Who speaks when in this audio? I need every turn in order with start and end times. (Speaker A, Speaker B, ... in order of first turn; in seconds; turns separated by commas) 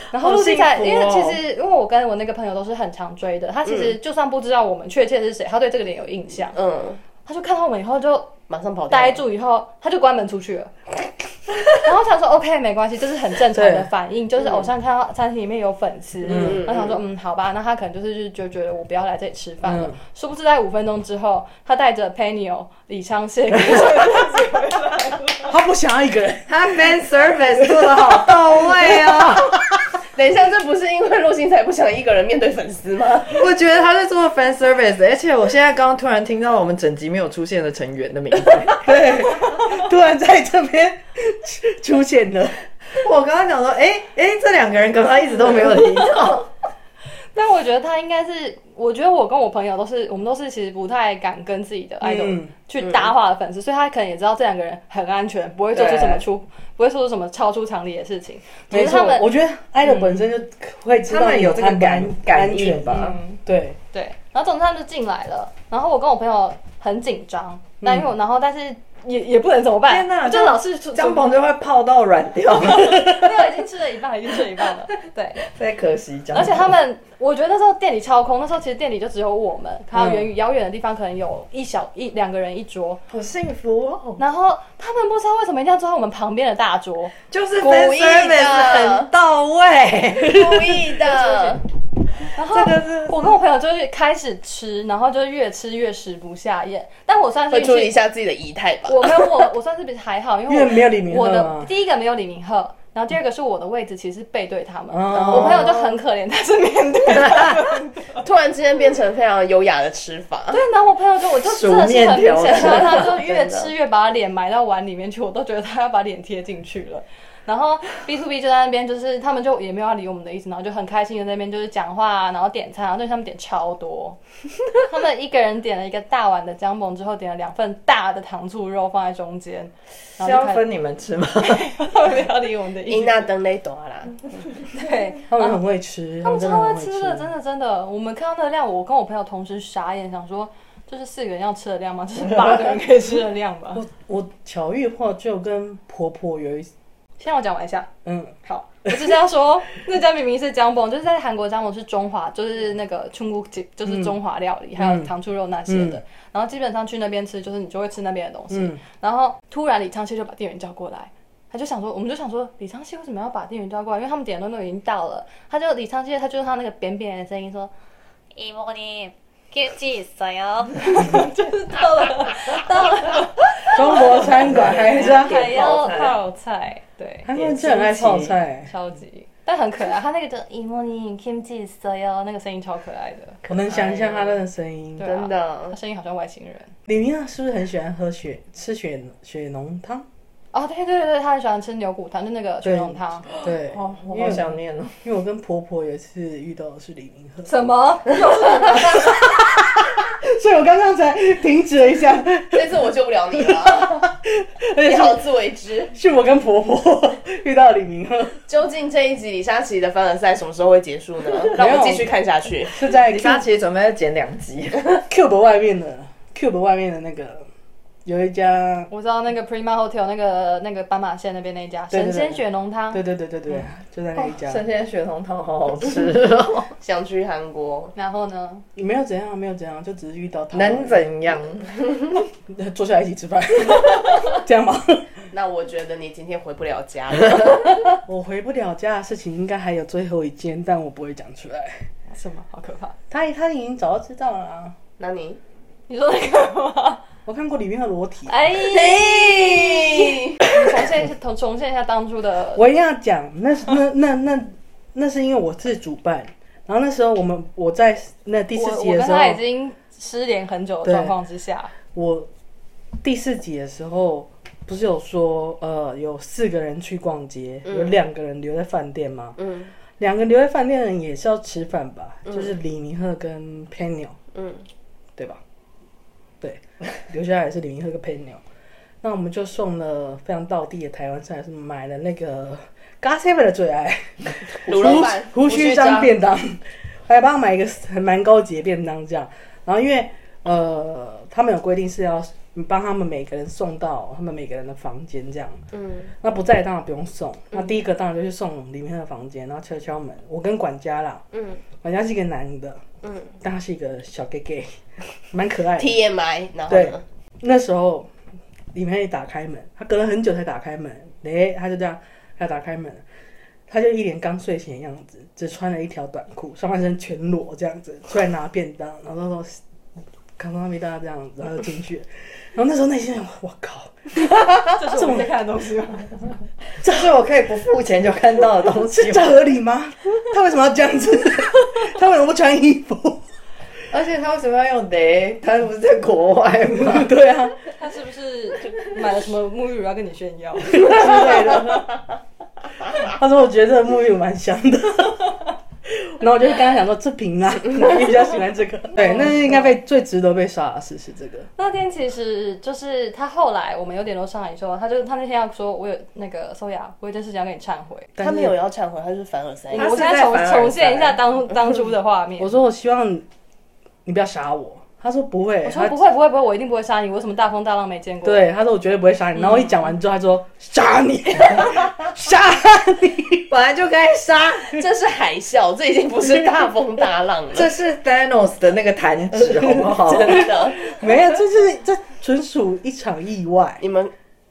Speaker A: 0.1-6.6, Speaker B: 0.2-1.4, Speaker C: 3.7-4.0, Speaker C: 6.5-7.0, Speaker A: 7.2-8.3, Speaker C: 8.5-9.2, Speaker A: 8.9-10.7, Speaker A: 11.7-25.5, Speaker D: 13.5-13.9, Speaker C: 14.4-14.7, Speaker D: 16.3-16.7, Speaker C: 16.3-17.0, Speaker D: 19.6-20.0, Speaker D: 25.5-26.8, Speaker B: 26.5-29.6, Speaker D: 27.6-29.8, Speaker C: 30.1-33.4, Speaker B: 33.3-38.9, Speaker D: 38.8-42.6, Speaker B: 43.0-46.5, Speaker A: 47.3-59.3, Speaker D: 52.0-52.5, Speaker C: 52.8-53.1, Speaker B: 55.7-56.2, Speaker D: 58.7-63.8, Speaker A: 59.8-60.1, Speaker B: 61.1-63.2, Speaker A: 62.9-63.4, Speaker A: 63.9-71.3, Speaker D: 67.8-68.1, Speaker B: 69.9-73.5, Speaker A: 72.6-75.4, Speaker B: 75.4-76.7, Speaker A: 76.3-83.0, Speaker D: 79.9-80.3, Speaker B: 83.1-84.2, Speaker A: 84.2-87.1, Speaker B: 87.3-90.9, Speaker C: 87.6-89.1, Speaker C: 90.2-91.6, Speaker A: 91.0-91.6, Speaker A: 92.3-97.9, Speaker B: 92.4-93.3, Speaker C: 97.5-99.3, Speaker A: 98.8-108.2, Speaker D: 100.5-101.7, Speaker D: 104.9-105.8, Speaker C: 105.1-106.0, Speaker B: 107.1-107.6, Speaker C: 108.2-110.6, Speaker A: 110.5-124.2, Speaker B: 111.4-113.2, Speaker C: 112.5-113.7, Speaker A: 124.7-130.7, Speaker B: 130.2-131.7, Speaker A: 131.4-133.3, Speaker C: 132.9-134.3, Speaker A: 134.7-135.6, Speaker D: 135.3-137.3, Speaker A: 136.2-143.8, Speaker D: 143.7-146.7, Speaker A: 147.2-147.9, Speaker D: 148.1-148.3, Speaker A: 148.4-167.7, Speaker D: 153.9-154.1, Speaker D: 154.8-155.1, Speaker D: 155.7-156.0, Speaker D: 158.5-158.8, Speaker E: 168.4-171.2, Speaker A: 170.8-177.3, Speaker E: 172.3-172.6, Speaker D: 173.7-175.5, Speaker B: 174.1-176.2, Speaker D: 177.2-178.7, Speaker B: 177.3-178.3, Speaker A: 178.6-183.9, Speaker D: 183.4-185.1, Speaker C: 183.8-184.1, Speaker A: 185.0-186.7, Speaker C: 185.0-185.8, Speaker D: 186.9-190.1, Speaker A: 190.5-193.3, Speaker D: 192.6-194.5, Speaker B: 193.7-194.9, Speaker D: 195.0-197.5, Speaker A: 197.4-199.0, Speaker D: 198.7-205.2, Speaker C: 202.5-204.1, Speaker C: 204.8-205.9, Speaker D: 205.9-208.4, Speaker C: 208.5-212.8, Speaker D: 211.5-212.1, Speaker D: 212.7-213.5, Speaker B: 213.0-215.0, Speaker D: 215.1-217.5, Speaker D: 218.1-218.9, Speaker A: 218.9-223.0, Speaker D: 221.9-224.6, Speaker B: 224.2-226.7, Speaker C: 226.8-227.9, Speaker A: 228.0-228.6, Speaker D: 228.8-231.0, Speaker B: 230.5-232.0, Speaker D: 232.5-235.1, Speaker C: 235.3-237.8, Speaker D: 238.1-241.9, Speaker A: 242.1-242.9, Speaker D: 243.1-244.8, Speaker C: 245.0-245.4, Speaker A: 245.9-247.0, Speaker D: 247.3-248.3, Speaker A: 248.3-252.6, Speaker C: 248.7-250.4, Speaker D: 252.6-259.4, Speaker A: 258.5-261.7, Speaker D: 260.8-261.2, Speaker D: 261.9-262.3, Speaker D: 263.0-269.4, Speaker C: 267.6-268.0, Speaker C: 269.4-269.7, Speaker D: 270.0-274.2, Speaker C: 272.3-272.5, Speaker C: 274.3-274.6, Speaker D: 276.4-278.4, Speaker D: 279.0-295.6, Speaker C: 284.6-286.1, Speaker C: 295.7-296.1, Speaker D: 296.2-301.2, Speaker C: 301.3-301.6, Speaker D: 301.8-302.9, Speaker C: 303.0-303.4, Speaker D: 303.4-306.0, Speaker C: 305.8-307.0, Speaker D: 306.7-308.1, Speaker D: 308.7-313.0, Speaker D: 313.7-319.6, Speaker D: 320.4-325.3, Speaker A: 324.7-326.4, Speaker B: 326.8-329.4, Speaker D: 328.8-333.2, Speaker B: 333.9-337.1, Speaker D: 336.8-337.6, Speaker A: 337.8-341.6, Speaker D: 340.7-341.9, Speaker D: 342.9-351.5, Speaker A: 349.0-349.7, Speaker A: 351.6-358.1, Speaker D: 358.2-358.5, Speaker C: 358.2-359.9, Speaker A: 359.7-362.5, Speaker B: 359.7-361.2, Speaker D: 362.4-363.2, Speaker D: 364.1-366.0, Speaker A: 365.6-368.4, Speaker D: 368.2-373.5, Speaker A: 369.4-369.9, Speaker B: 373.5-374.8, Speaker C: 374.7-377.7, Speaker B: 377.5-380.5, Speaker D: 379.4-383.8, Speaker C: 380.1-380.8, Speaker C: 383.8-384.1